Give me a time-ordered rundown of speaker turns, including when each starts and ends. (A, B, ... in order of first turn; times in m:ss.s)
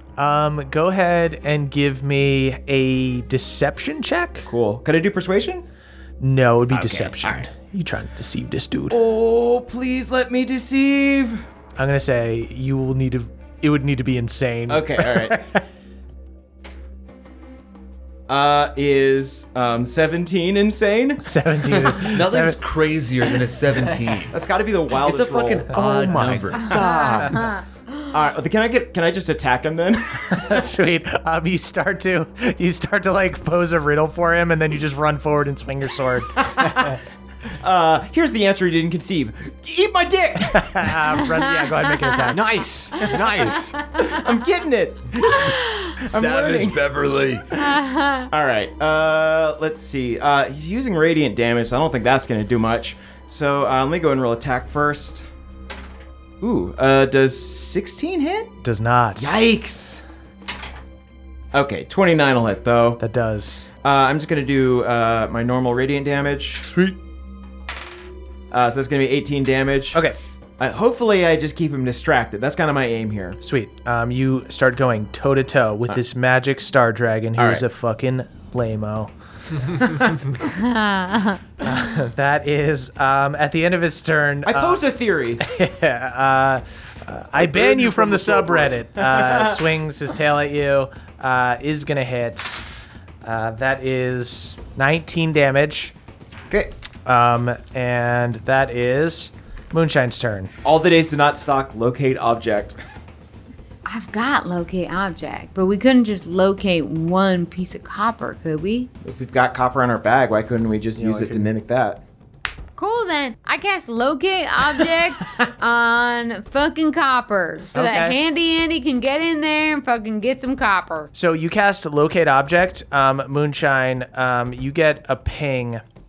0:00.2-0:04.5 A
0:04.4-0:05.6 B
0:06.2-0:09.0 A
0:06.7-0:07.5 B
0:08.9-0:11.4 B
0:11.8-0:15.6 A
0:14.7-0:15.5 B
0:18.3-0:21.9 B
0:21.2-0:22.6 A
0:22.0-0:24.3 C
0:24.3-0:25.8 B
0:25.0-0:26.8 C
0:25.8-0:27.3 D
0:26.7-0:27.0 B
0:26.8-0:27.6 E
0:28.1-0:30.6 B
0:30.3-0:36.4 A
0:37.6-0:41.2 B
0:40.5-0:42.6 A
0:42.3-0:43.8 D
0:44.0-0:46.8 B
0:45.3-0:45.9 E
0:46.0-0:47.6 C
0:47.6-0:48.3 E
0:48.3-0:55.3 B
0:56.4-0:58.6 B
0:58.6-0:59.3 A
0:59.2-1:00.0 B
1:01.5-1:03.0 B
1:03.0-1:03.7 A
1:03.8-1:06.7 B
1:08.5-1:10.0 B
1:10.6-1:13.4 B
1:13.4-1:19.1 A
1:17.4-1:17.6 B
1:20.5-1:21.4 E
1:21.6-1:24.8 A
1:24.4-1:25.4 B
1:25.4-1:32.6 A
1:27.4-1:29.7 B
1:33.2-1:35.9 A
1:37.0-1:40.5 A
1:40.6-1:42.8 B
1:43.8-1:48.9 E
1:49.0-1:52.0 B
1:51.0-1:51.5 A
1:52.8-2:01.1 E
1:57.7-1:58.2 A
2:01.1-2:05.8 A